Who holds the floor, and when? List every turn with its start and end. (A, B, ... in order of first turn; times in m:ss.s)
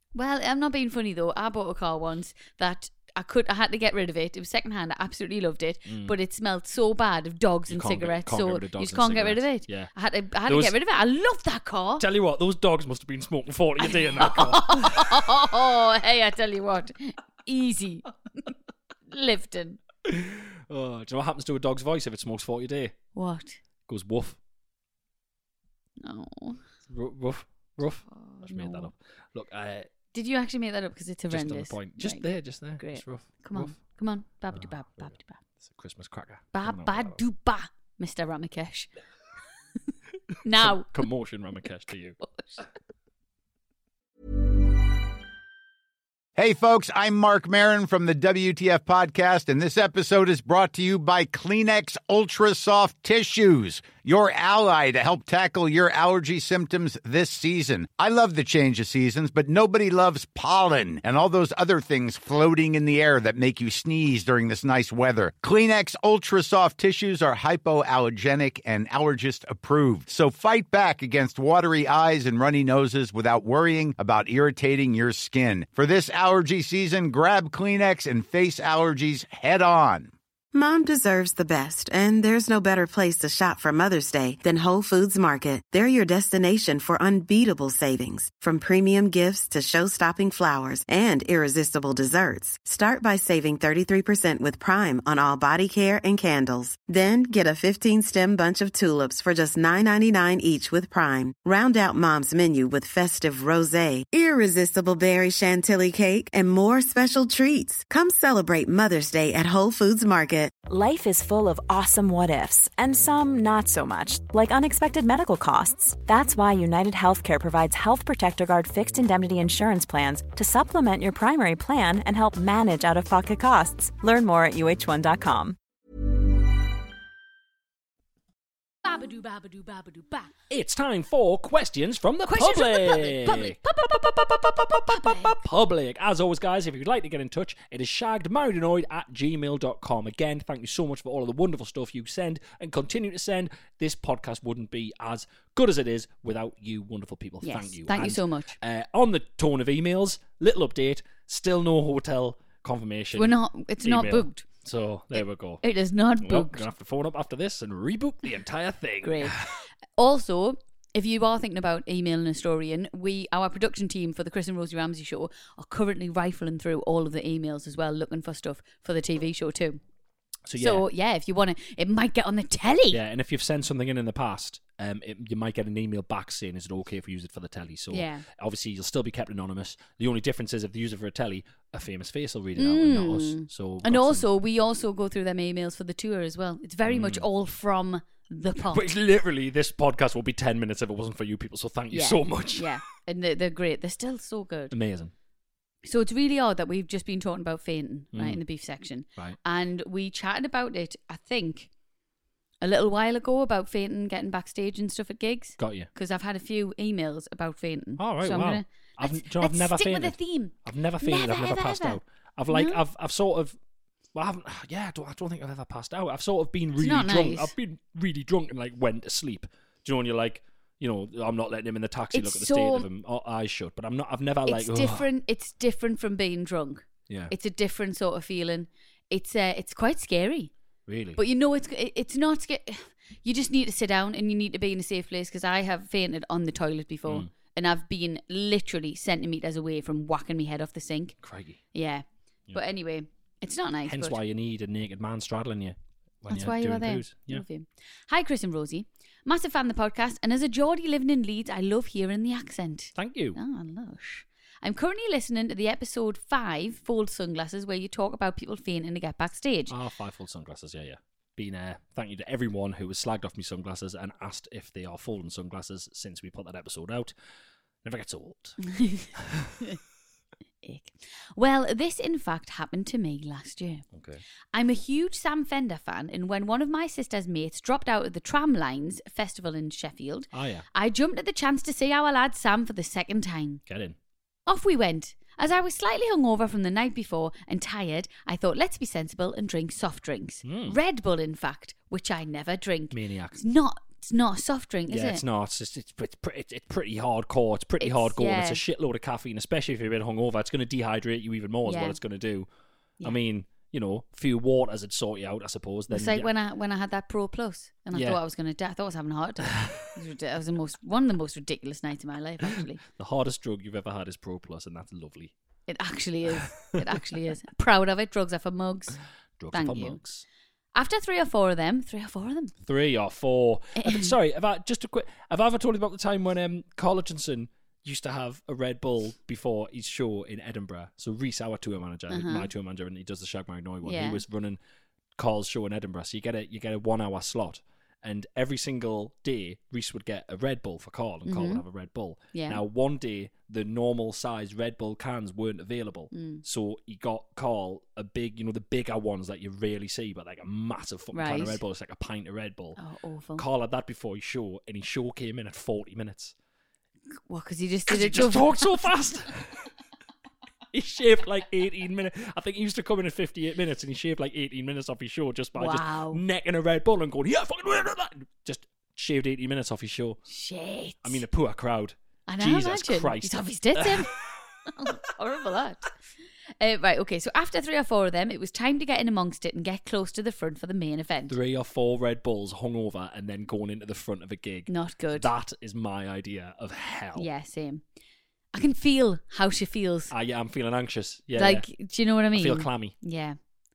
0:00.1-0:12.0 A
0:05.8-0:06.2 B
0:07.7-0:09.9 B
0:10.4-0:10.7 B
0:12.0-0:15.2 B
0:13.8-0:18.1 A
0:19.1-0:19.8 A
0:20.0-0:23.0 B
0:23.1-0:23.6 A
0:23.9-0:24.4 B
0:26.0-0:26.6 A
0:26.9-0:29.9 B
0:28.1-0:28.9 A
0:30.1-0:32.2 A
0:31.3-0:33.8 B
0:32.8-0:35.4 A
0:34.5-0:37.2 B
0:36.5-0:38.9 A
0:40.4-0:40.9 A
0:40.6-0:42.2 B
0:42.2-0:42.6 A
0:46.4-1:20.1 C
1:20.5-1:50.6 D
1:50.6-2:05.6 E
2:08.8-2:10.3 A
2:10.5-2:35.6 B
2:12.3-2:13.8 A
2:14.9-2:15.4 A
2:27.4-2:28.6 A
2:33.2-2:34.4 A
2:35.1-2:36.6 A
2:36.2-2:39.6 B
2:39.0-2:39.4 A
2:40.0-2:49.8 A
2:50.4-2:50.8 B
2:50.6-2:53.0 A
2:52.9-3:04.2 B
2:57.9-2:58.2 A
3:02.6-3:08.8 A
3:06.9-3:07.2 B
3:08.7-3:12.7 B
3:11.9-3:14.7 A
3:14.7-3:15.1 B
3:15.8-3:21.7 A
3:18.1-3:18.4 B
3:22.6-3:32.0 A
3:25.6-3:25.9 B
3:28.0-3:33.6 B
3:32.5-3:32.8 A
3:34.1-3:45.1 B
3:36.8-3:37.5 A
3:42.1-3:42.9 A
3:44.4-3:50.5 A
3:50.9-3:51.2 B
3:51.2-4:01.1 A
4:01.2-4:01.6 B
4:01.7-4:04.2 A
4:03.8-4:07.4 B
4:06.3-4:19.7 A
4:13.0-4:13.4 B
4:19.7-4:27.1 B
4:27.8-4:28.6 B
4:28.7-4:29.1 A
4:29.1-4:29.6 B
4:30.6-4:33.8 A
4:33.9-4:34.2 B
4:34.5-4:43.6 A
4:40.3-4:40.6 B
4:43.7-4:44.0 B
4:44.4-4:55.2 A
4:50.4-4:50.8 B
4:52.9-4:53.4 B
4:54.9-5:02.5 B
4:57.8-4:58.6 A
5:01.6-5:02.0 A
5:03.0-5:06.3 B
5:05.9-5:12.8 A
5:07.9-5:08.2 B
5:09.5-5:09.8 B
5:12.8-5:15.3 B
5:15.7-5:19.0 A
5:19.4-5:20.2 B
5:19.5-5:20.0 A
5:20.7-5:22.5 A
5:22.6-5:34.6 B
5:23.8-5:24.1 A
5:32.1-5:32.5 A
5:33.8-5:34.2 A
5:35.2-5:52.8 B
5:41.2-5:41.6 A
5:42.3-5:42.6 A
5:46.1-5:46.4 A
5:51.1-5:51.6 A
5:52.8-5:53.4 A
5:53.4-5:56.3 B
5:57.3-5:58.8 A
5:57.9-5:59.7 B
6:00.7-6:10.2 B
6:05.6-6:06.2 A
6:10.3-6:11.2 A
6:11.0-6:15.0 B
6:12.3-6:14.1 A
6:14.7-6:15.9 A
6:16.6-6:21.3 A
6:21.3-6:27.3 B
6:24.7-6:25.3 A
6:27.2-6:27.8 A
6:28.5-6:30.1 A
6:30.1-6:31.6 B
6:31.4-6:33.4 A
6:32.3-6:32.9 B